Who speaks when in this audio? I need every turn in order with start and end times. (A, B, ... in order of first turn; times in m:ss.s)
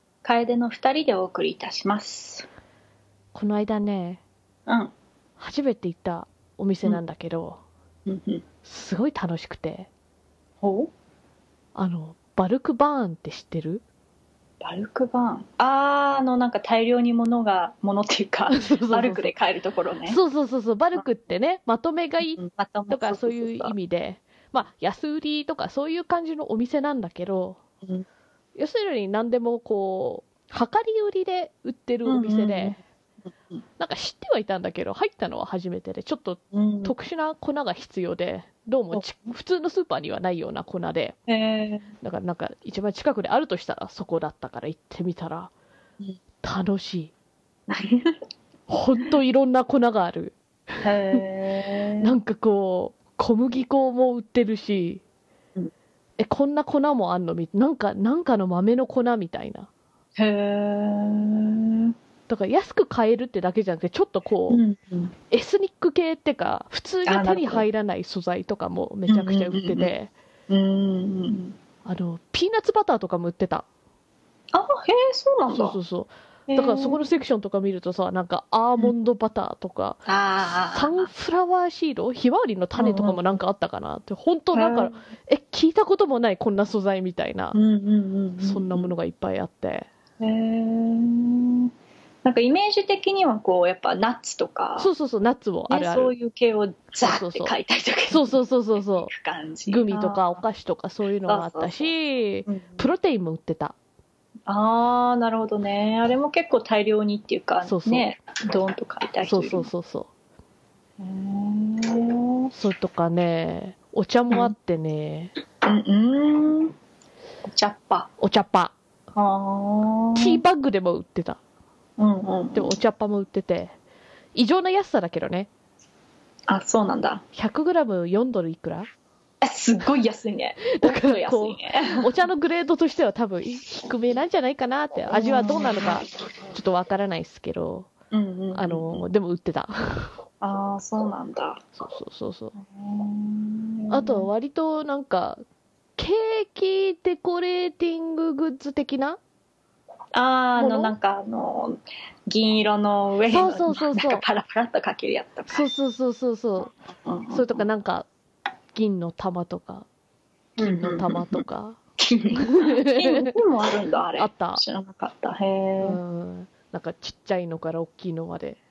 0:00.2-0:02.5 A
0:03.3-0:04.2 B
0:04.7-0:04.9 A
0:05.4-0:07.6 B
0:08.0-0:08.4 A
0:08.6-0:09.9 B
0:10.6-0:10.9 A
0:11.7-0:13.8 B
0:14.6-0:20.2 A
0:18.5-0:19.3 B
0:20.1-0:27.6 B
0:22.2-0:23.7 A
0:28.6-0:32.8 B
0:32.0-0:32.8 A
0:33.8-0:41.2 B
0:36.5-0:36.9 A
0:38.9-0:39.3 A
0:41.3-0:41.9 A
0:42.0-0:45.5 B
0:46.4-0:47.1 B
0:47.7-0:48.2 A
0:48.7-0:51.2 B
0:50.8-0:52.1 A
0:52.0-0:55.0 B
0:56.2-0:59.7 B
1:00.2-1:01.9 A
1:02.3-1:04.6 B
1:04.5-1:05.1 A
1:05.3-1:10.1 B
1:07.0-1:07.6 A
1:09.1-1:09.9 A
1:10.5-1:11.6 A
1:11.8-1:13.6 B
1:14.5-1:15.8 A
1:15.5-1:27.6 B
1:16.5-1:17.0 A
1:20.0-1:21.1 A
1:22.8-1:23.2 A
1:24.5-1:25.0 A
1:27.5-1:28.9 A
1:28.4-1:29.9 B
1:30.2-1:31.7 A
1:32.2-1:34.9 A
1:34.8-1:36.1 B
1:35.7-1:40.4 A
1:37.0-1:37.6 B
1:38.1-1:39.1 B
1:39.7-1:43.8 B
1:41.2-1:41.9 A
1:42.5-1:42.9 A
1:44.5-1:49.7 A
1:47.6-1:48.0 B
1:49.2-1:50.1 B
1:51.0-1:52.5 A
1:52.5-1:55.3 B
1:55.6-1:56.7 A
1:57.4-1:58.1 A
1:58.2-1:58.7 B
1:59.1-2:00.4 A
2:00.2-2:01.4 B
2:02.0-2:02.8 A
2:02.5-2:03.7 B
2:04.3-2:05.5 B
2:06.5-2:07.2 A
2:07.3-2:08.9 B
2:09.4-2:12.1 A
2:10.7-2:17.9 B
2:15.1-2:16.1 A
2:18.1-2:19.0 A
2:18.5-2:20.2 B
2:20.4-2:21.8 A
2:21.8-2:22.5 B
2:22.5-2:24.3 A
2:23.9-2:25.4 B
2:26.0-2:29.2 B
2:30.1-2:35.7 A
2:30.6-2:30.9 B
2:33.3-2:34.2 B
2:35.5-2:36.7 B
2:36.9-2:37.6 A
2:37.3-2:38.1 B
2:38.7-2:39.9 B
2:40.6-2:41.4 A
2:40.6-2:41.8 B
2:42.0-2:46.0 A
2:42.4-2:43.3 B
2:44.2-2:44.6 B
2:45.8-2:48.6 B